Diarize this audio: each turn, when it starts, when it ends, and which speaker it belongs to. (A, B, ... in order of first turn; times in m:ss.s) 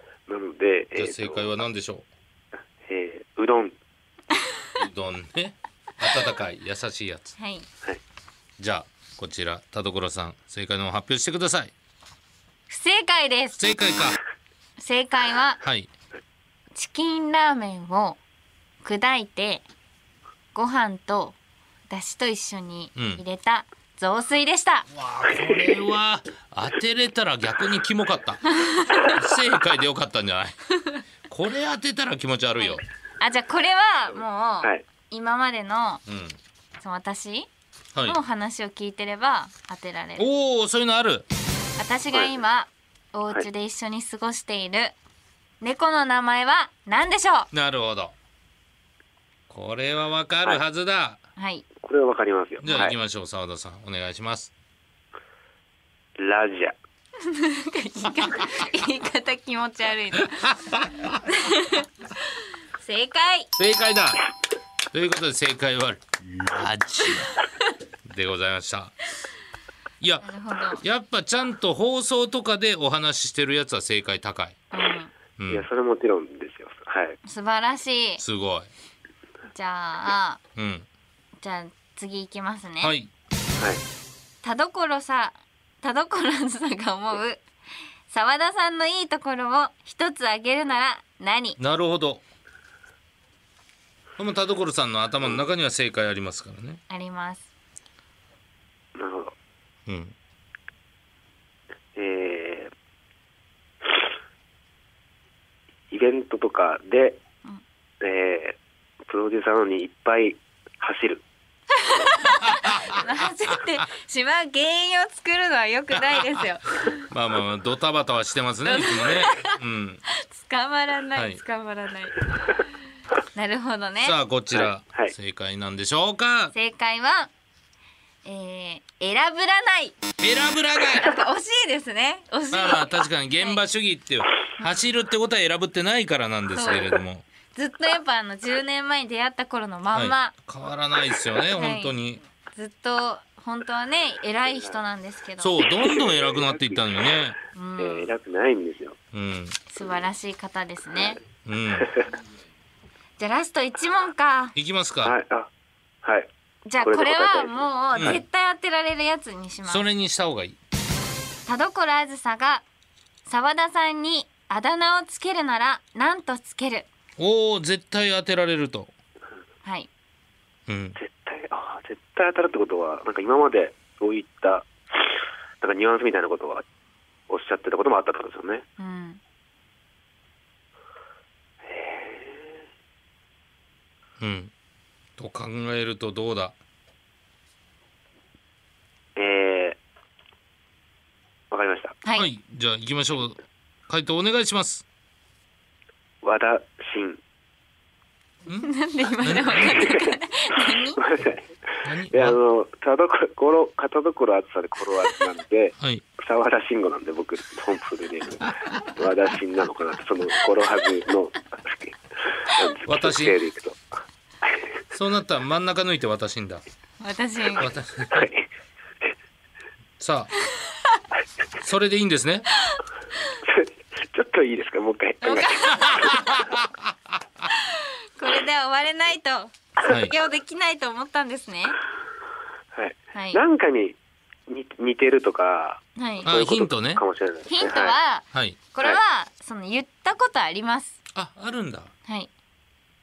0:00.3-0:01.6 A
0:01.0-0:02.1 B
0:02.9-0:03.8 A
0:04.8-0:07.4 B
0:07.4-0:07.7 C
0:08.6-0:11.7 B
0:12.7-0:13.7 C
0:13.6-0:14.2 B
0:14.8-0:15.6 C
0:15.6-0:15.9 B
0:16.8-0:18.2 C
0:18.8-0:19.6 C
0:20.6-0:21.4 C
0:21.9-0:24.9 C
0:23.0-0:23.2 B
0:24.9-0:28.4 B
0:28.5-0:29.2 C
0:29.1-0:30.6 B
0:31.3-0:32.8 B
0:32.6-0:36.0 C
0:36.1-0:36.4 B
0:36.8-0:37.5 C
0:37.9-0:38.2 B
0:38.0-0:40.3 C
0:40.2-0:41.3 B
0:41.8-0:44.9 C
0:45.6-0:47.5 C
0:47.5-0:48.1 B
0:49.5-0:51.2 B
0:51.4-0:51.6 C
0:51.8-0:53.0 A
0:52.6-0:54.5 B
0:56.2-0:56.8 A
0:57.2-1:00.5 C
1:00.2-1:01.2 B
1:01.3-1:03.5 C
1:03.6-1:04.2 B
1:04.9-1:07.4 B
1:08.0-1:09.0 B
1:10.0-1:14.6 B
1:10.2-1:10.8 C
1:14.7-1:15.1 C
1:15.4-1:15.7 B
1:15.5-1:17.2 A
1:17.2-1:18.2 C
1:18.2-1:18.7 B
1:19.5-1:20.4 C
1:20.6-1:20.9 B
1:21.4-1:23.0 C
1:22.8-1:23.1 B
1:23.6-1:23.8 A
1:24.4-1:27.4 C
1:28.1-1:31.6 C
1:31.6-1:32.2 B
1:34.2-1:36.8 B
1:36.9-1:37.5 C
1:39.0-1:39.3 A
1:39.9-1:40.2 B
1:42.0-1:42.7 A
1:45.9-1:47.2 A
1:48.0-1:51.2 A
1:51.7-1:57.0 C
1:52.4-1:53.3 B
1:56.1-1:56.4 B
1:56.9-2:00.0 B
1:58.7-1:59.6 C
2:00.2-2:02.5 C
2:01.2-2:01.4 B
2:03.4-2:04.2 C
2:04.0-2:06.5 B
2:04.5-2:05.1 A
2:06.5-2:07.3 C
2:08.2-2:10.0 C
2:10.2-2:11.1 B
2:10.9-2:13.6 C
2:12.5-2:17.2 B
2:16.5-2:17.0 C
2:17.5-2:20.3 C
2:19.9-2:22.2 B
2:21.6-2:22.0 C
2:22.6-2:25.6 C
2:25.4-2:27.4 B
2:25.8-2:26.8 A
2:27.6-2:28.1 C
2:27.8-2:29.0 A
2:29.1-2:29.6 B
2:29.7-2:31.2 C
2:31.4-2:32.0 B
2:31.8-2:32.1 A
2:33.2-2:34.6 C
2:34.6-2:35.2 B
2:35.0-2:35.5 A
2:36.0-2:36.3 A
2:36.7-2:39.8 C
2:36.8-2:38.2 A
2:38.0-2:38.2 B
2:39.7-2:40.6 B
2:41.5-2:42.6 C
2:43.3-2:46.9 C
2:47.2-2:48.9 B
2:49.6-2:49.9 C
2:50.7-2:51.0 B
2:51.0-2:55.1 A
2:55.6-2:56.6 A
2:57.3-2:58.6 A
2:58.8-2:59.2 C
3:01.7-3:02.5 A
3:04.2-3:04.5 B
3:05.2-3:06.6 B
3:09.2-3:09.8 A
3:11.5-3:12.0 A
3:12.2-3:14.8 B
3:16.2-3:17.2 A
3:18.6-3:21.0 C
3:19.2-3:20.0 B
3:19.6-3:20.2 A
3:21.0-3:21.4 A
3:21.8-3:22.4 B
3:22.1-3:33.8 A
3:32.9-3:33.4 B
3:34.9-3:36.6 B
3:37.0-3:37.7 C
3:37.6-3:38.3 B
3:38.1-3:38.4 A
3:40.0-3:40.3 B
3:41.6-3:42.5 B
3:43.4-3:46.2 A
3:45.2-3:46.3 C
3:45.7-3:47.2 B
3:47.5-3:51.8 C
3:49.9-3:50.2 B
3:52.7-3:54.0 A
3:53.1-3:53.4 C
3:54.5-3:58.0 A
3:56.0-3:56.3 C
3:56.2-3:57.0 B
3:57.5-4:01.0 C
3:58.3-3:58.6 B
4:01.2-4:01.9 B
4:02.1-4:02.3 C